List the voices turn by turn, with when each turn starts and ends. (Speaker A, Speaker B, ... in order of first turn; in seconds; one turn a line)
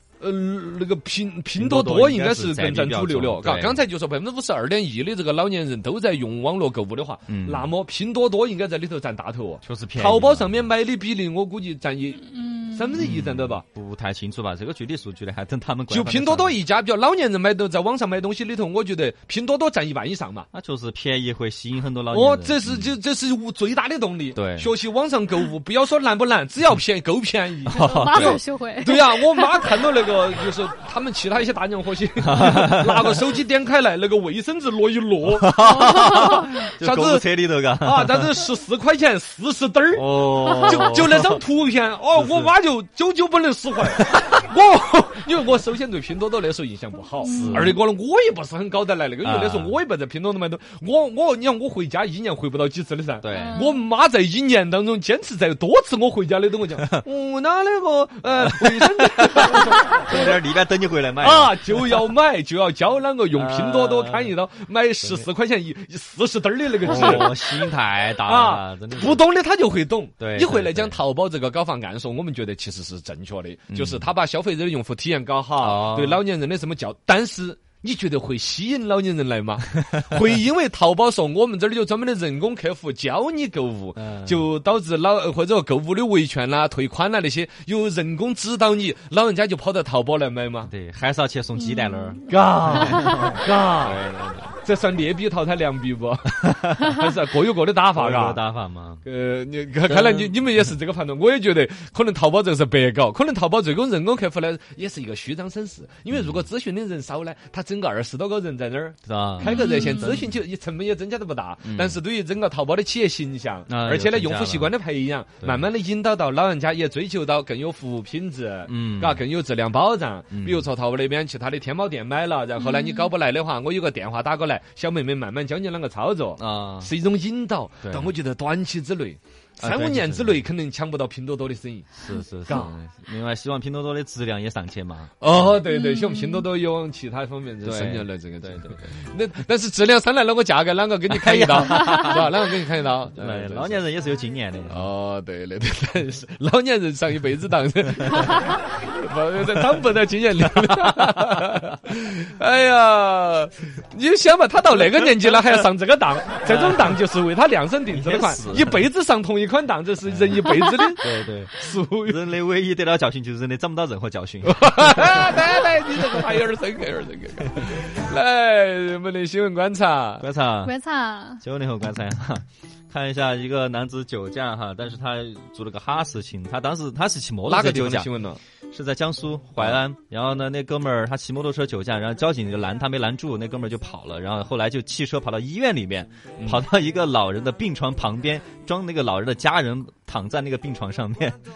Speaker A: 0.2-13.7
Speaker B: 1.6-3.8
Speaker B: 7.3-7.7
Speaker B: 9.6-10.7
Speaker C: 12.3-12.8
Speaker B: 13.0-16.6
Speaker A: 15.9-20.5
Speaker B: 20.5-23.0
Speaker A: 22.1-37.3
Speaker B: 24.3-24.7
Speaker B: 27.7-28.4
Speaker C: 27.7-29.8
Speaker B: 32.2-33.2
Speaker B: 35.4-38.4
Speaker C: 35.8-36.5
Speaker A: 37.8-60.4
Speaker B: 39.9-41.4
Speaker C: 40.5-40.7
Speaker C: 47.2-47.8
Speaker B: 47.2-47.8
Speaker B: 49.2-49.8
Speaker B: 53.2-53.7
Speaker C: 53.3-53.8
Speaker B: 58.4-62.0
Speaker A: 61.2-67.7
Speaker B: 63.3-64.3
Speaker B: 66.8-69.2
Speaker A: 68.2-90.7
Speaker B: 70.2-71.0
Speaker B: 73.7-74.1
Speaker B: 75.6-76.2
Speaker B: 83.9-84.5
Speaker B: 90.7-94.6
Speaker C: 91.6-92.2
Speaker A: 92.3-94.0
Speaker C: 92.8-93.3
Speaker A: 94.6-98.4
Speaker B: 97.9-99.0
Speaker A: 99.0-132.7
Speaker B: 99.9-100.4
Speaker B: 106.1-106.4
Speaker B: 109.1-110.2
Speaker C: 109.4-110.2
Speaker B: 111.6-112.0
Speaker B: 113.7-114.7
Speaker B: 118.7-119.2
Speaker B: 120.3-120.7
Speaker C: 122.6-123.1
Speaker B: 126.4-126.9
Speaker B: 127.8-128.1
Speaker B: 129.6-130.4
Speaker B: 132.0-135.5
Speaker A: 135.2-143.8
Speaker C: 135.6-136.5
Speaker B: 137.6-139.0
Speaker B: 141.1-142.2
Speaker C: 141.7-142.2
Speaker B: 143.1-144.9
Speaker A: 144.7-162.3
Speaker B: 156.4-157.0
Speaker B: 157.9-158.8
Speaker B: 160.1-165.3
Speaker A: 164.4-170.2
Speaker B: 170.2-170.8
Speaker C: 170.6-171.4
Speaker B: 171.4-178.1
Speaker A: 177.5-178.4
Speaker B: 178.7-191.4
Speaker A: 179.6-179.8
Speaker A: 186.4-186.7